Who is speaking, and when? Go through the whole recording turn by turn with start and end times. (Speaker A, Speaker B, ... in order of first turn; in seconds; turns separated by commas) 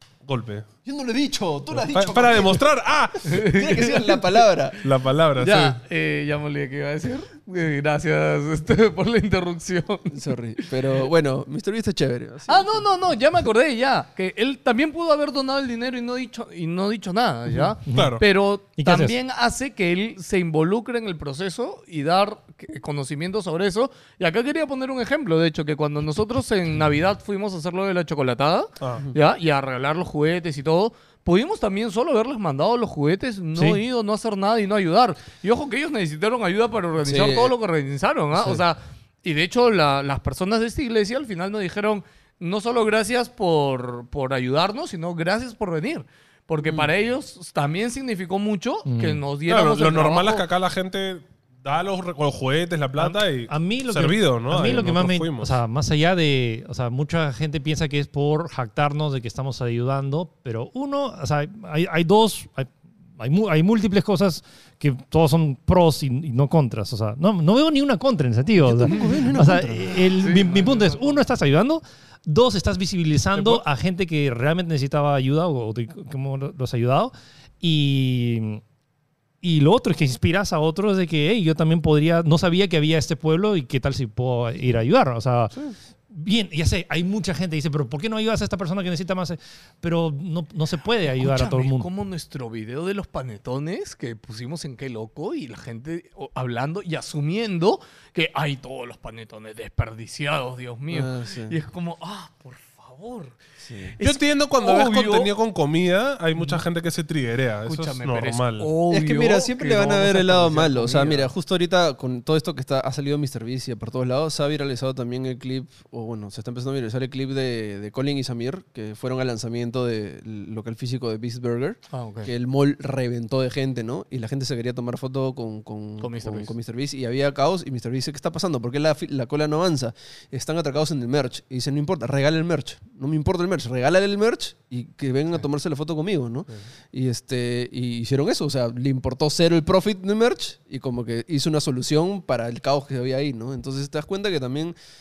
Speaker A: 0.2-0.7, Speaker B: 0.8-2.6, Speaker A: 1.8-3.4, Speaker B: 3.2-4.8, Speaker C: 3.2-4.4, Speaker A: 4.8-5.8, Speaker C: 5.4-10.2, Speaker B: 10.1-12.8, Speaker C: 12.5-50.5, Speaker D: 17.9-18.2, Speaker A: 17.9-18.2, Speaker D: 18.8-19.1, Speaker B: 37.0-37.5, Speaker B: 46.6-46.9, Speaker D: 48.9-49.2, Speaker A: 49.5-55.5, Speaker D: 53.0-78.6, Speaker B: 68.6-70.0, Speaker C: 70.2-71.2, Speaker A: 73.3-73.6, Speaker D: 79.4-91.9, Speaker C: 91.1-103.4, Speaker B: 100.9-101.5, Speaker B: 103.6-103.9, Speaker C: 103.9-105.3, Speaker A: 104.0-108.7, Speaker C: 106.3-106.6, Speaker C: 107.6-111.3, Speaker B: 108.9-144.7, Speaker C: 121.9-122.3, Speaker C: 126.0-126.5